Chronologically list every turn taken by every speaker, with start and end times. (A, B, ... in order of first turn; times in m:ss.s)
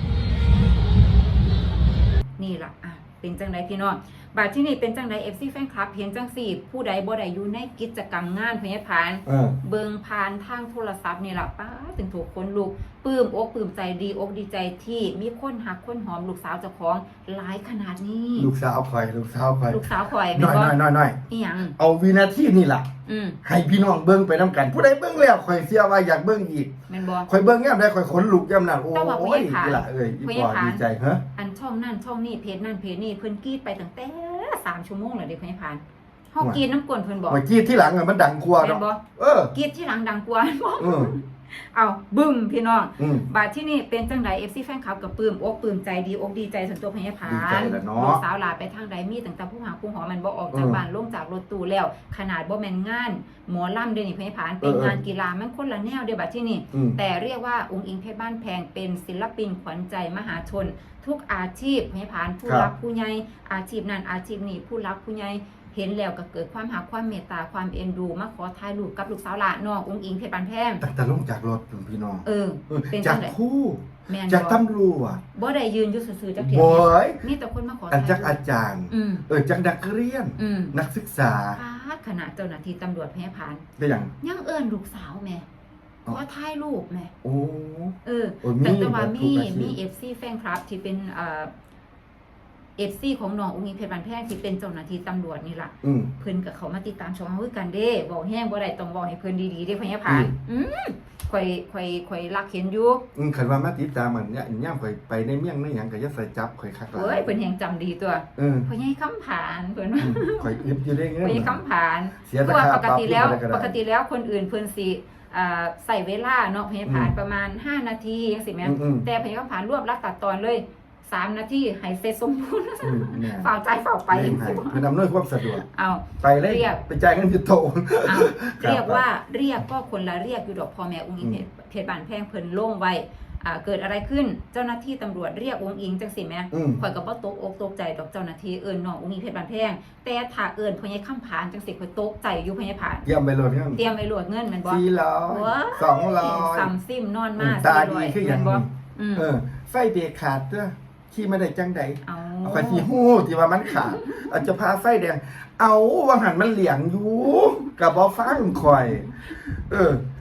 0:02.4-0:18.5 A
0:09.2-0:09.6 B
0:18.4-0:19.8 B
0:19.7-0:20.8 A
0:20.3-0:21.2 B
0:21.3-0:21.7 A
0:21.8-0:22.9 B
0:23.0-0:23.4 A
0:23.4-0:26.7 B
0:26.9-0:27.3 A
0:27.3-0:31.2 B
0:28.9-0:30.8 A
0:31.3-0:37.4 A
0:37.3-0:39.5 B
0:38.6-0:39.0 A
0:39.5-1:10.8 A
0:40.8-0:41.1 B
0:43.0-0:43.3 B
0:47.2-0:48.2 B
0:50.5-0:50.8 B
0:54.6-0:55.0 B
0:56.7-0:57.0 B
1:02.4-1:02.7 B
1:10.8-1:15.2 B
1:12.2-1:13.3 A
1:14.1-1:14.6 A
1:15.3-1:19.2 A
1:16.4-1:17.2 B
1:17.9-1:21.6 B
1:20.4-1:20.7 A
1:21.5-1:23.6 A
1:23.8-1:24.1 B
1:24.2-1:25.4 A
1:26.1-1:27.1 A
1:27.2-1:29.8 B
1:28.0-1:31.5 A
1:32.8-1:43.0 A
1:35.8-1:36.1 B
1:40.1-1:40.3 B
1:43.1-1:47.3 B
1:46.9-1:50.6 A
1:48.4-1:48.7 B
1:50.0-1:51.6 B
1:51.2-2:04.8 A
1:52.3-1:53.7 B
1:56.8-1:57.1 B
1:58.6-1:59.1 B
2:02.8-2:03.5 B
2:04.1-2:05.6 B
2:05.6-2:06.8 A
2:06.2-2:09.0 B
2:08.0-2:23.0 A
2:16.5-2:16.8 B
2:23.0-2:23.8 B
2:23.7-2:29.3 A
2:24.6-2:26.7 B
2:27.4-2:40.0 B
2:32.0-2:32.9 A
2:38.3-2:38.8 A